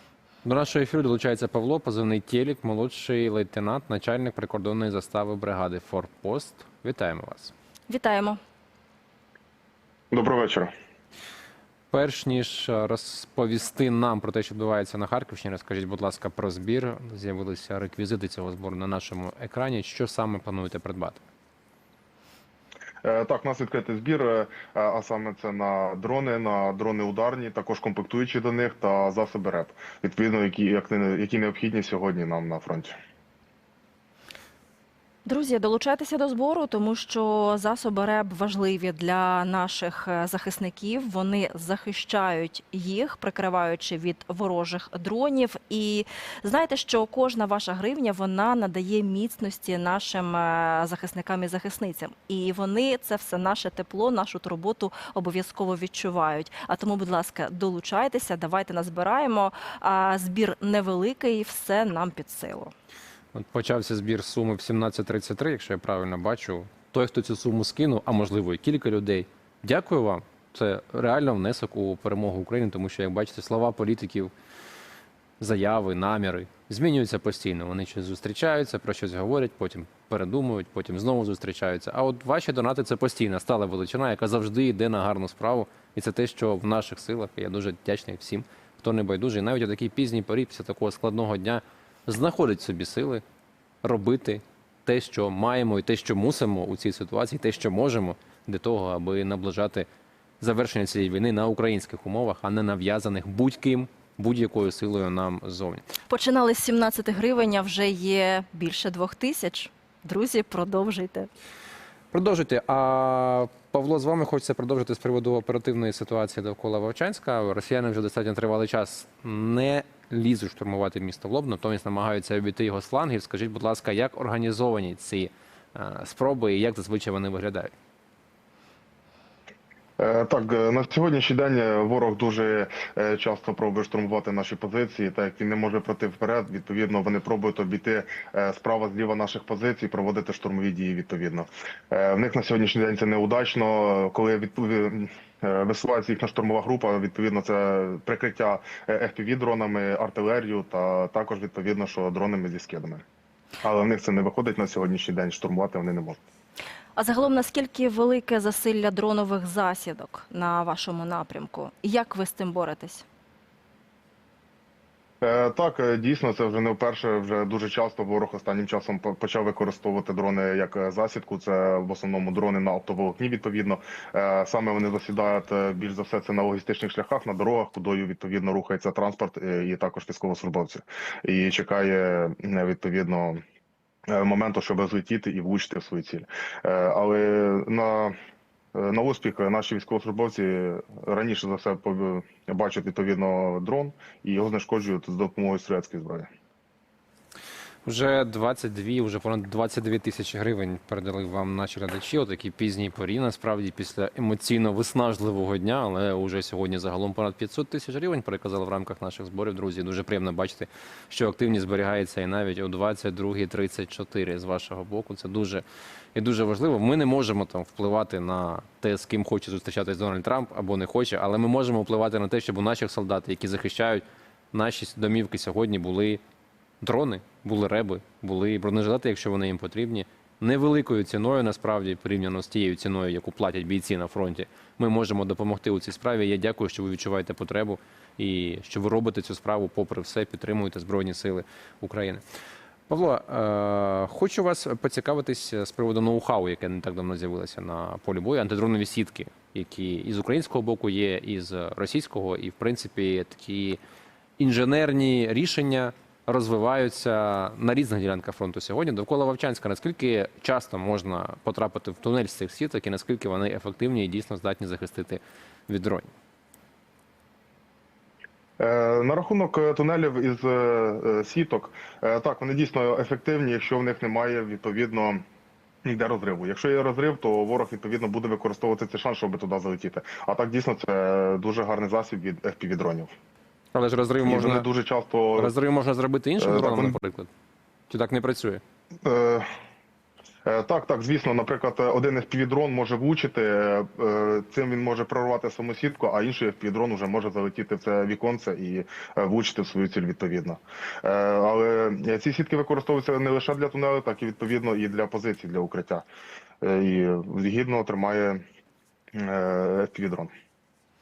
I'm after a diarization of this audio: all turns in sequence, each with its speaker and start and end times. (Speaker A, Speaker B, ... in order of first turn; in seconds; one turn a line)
Speaker A: 0.4-7.5
Speaker B: 7.9-8.4
Speaker C: 10.1-10.7
Speaker A: 11.9-21.2
Speaker C: 23.0-32.9
Speaker B: 35.2-62.7
Speaker A: 63.3-74.3
Speaker A: 75.4-93.2
Speaker A: 93.8-99.9
Speaker A: 100.4-105.8
Speaker B: 106.1-111.3
Speaker A: 112.1-127.7
Speaker C: 130.0-153.0
Speaker C: 153.6-156.2
Speaker B: 156.9-163.0
Speaker C: 165.2-183.4
Speaker C: 184.1-188.1
Speaker C: 188.7-196.3
Speaker A: 197.8-215.6
Speaker A: 216.1-226.2
Speaker A: 226.8-242.2
Speaker A: 242.9-253.8
Speaker A: 254.4-266.1
Speaker C: 268.6-275.2
Speaker C: 275.8-283.1
Speaker A: 283.7-284.6
Speaker C: 284.2-285.5
Speaker A: 285.4-287.3
Speaker C: 286.4-286.9
Speaker A: 287.9-288.6
Speaker C: 289.0-289.5
Speaker C: 290.4-306.0
Speaker C: 306.6-308.4
Speaker C: 309.1-310.3